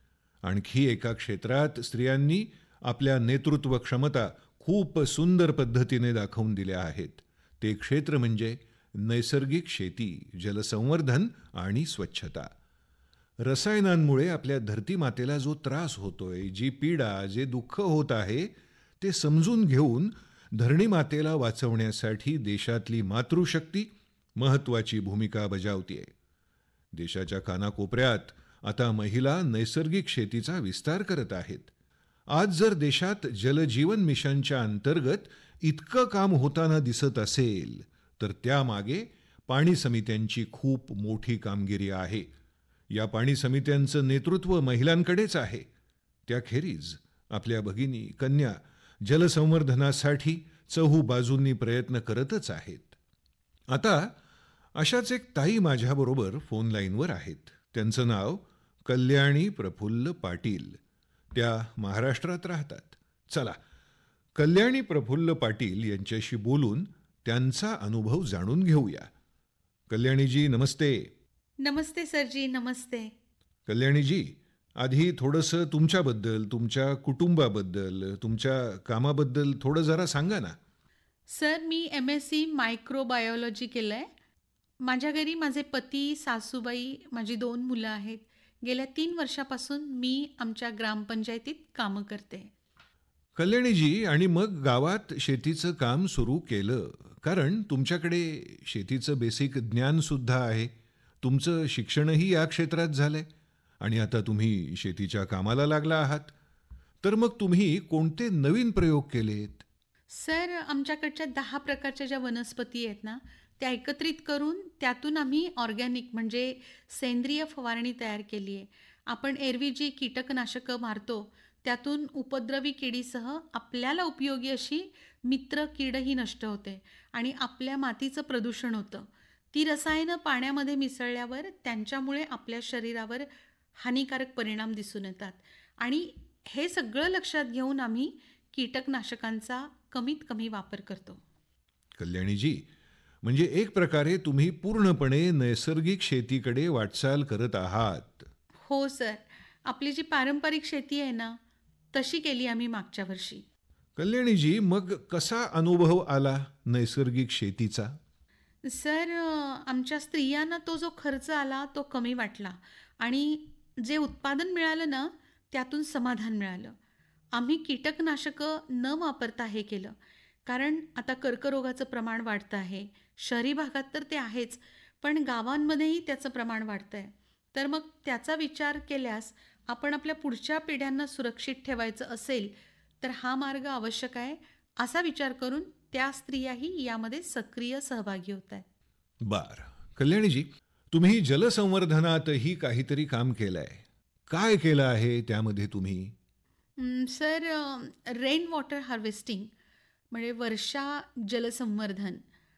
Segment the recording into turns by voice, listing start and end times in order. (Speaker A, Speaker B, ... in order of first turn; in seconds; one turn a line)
Speaker A: 0.4-12.5
Speaker A: 13.4-26.1
Speaker A: 26.9-31.7
Speaker A: 32.3-42.3
Speaker A: 42.9-45.7
Speaker A: 46.3-53.0
Speaker A: 53.7-54.1
Speaker A: 54.8-60.8
Speaker A: 61.3-63.6
Speaker A: 64.3-69.1
Speaker A: 69.9-71.1
Speaker B: 71.6-73.1
Speaker A: 73.7-80.6
Speaker B: 81.3-84.1
Speaker B: 84.8-92.5
Speaker A: 93.3-100.7
Speaker A: 101.2-103.3
Speaker A: 103.8-106.3
Speaker A: 107.0-109.6
Speaker B: 110.1-141.2
Speaker A: 142.0-142.7
Speaker A: 143.2-148.3
Speaker B: 148.6-151.4
Speaker B: 151.9-153.4
Speaker A: 154.0-157.9
Speaker B: 158.6-166.7
Speaker B: 167.3-169.9
Speaker B: 170.4-188.6
Speaker A: 189.2-196.1
Speaker B: 196.8-199.5
Speaker B: 200.1-202.2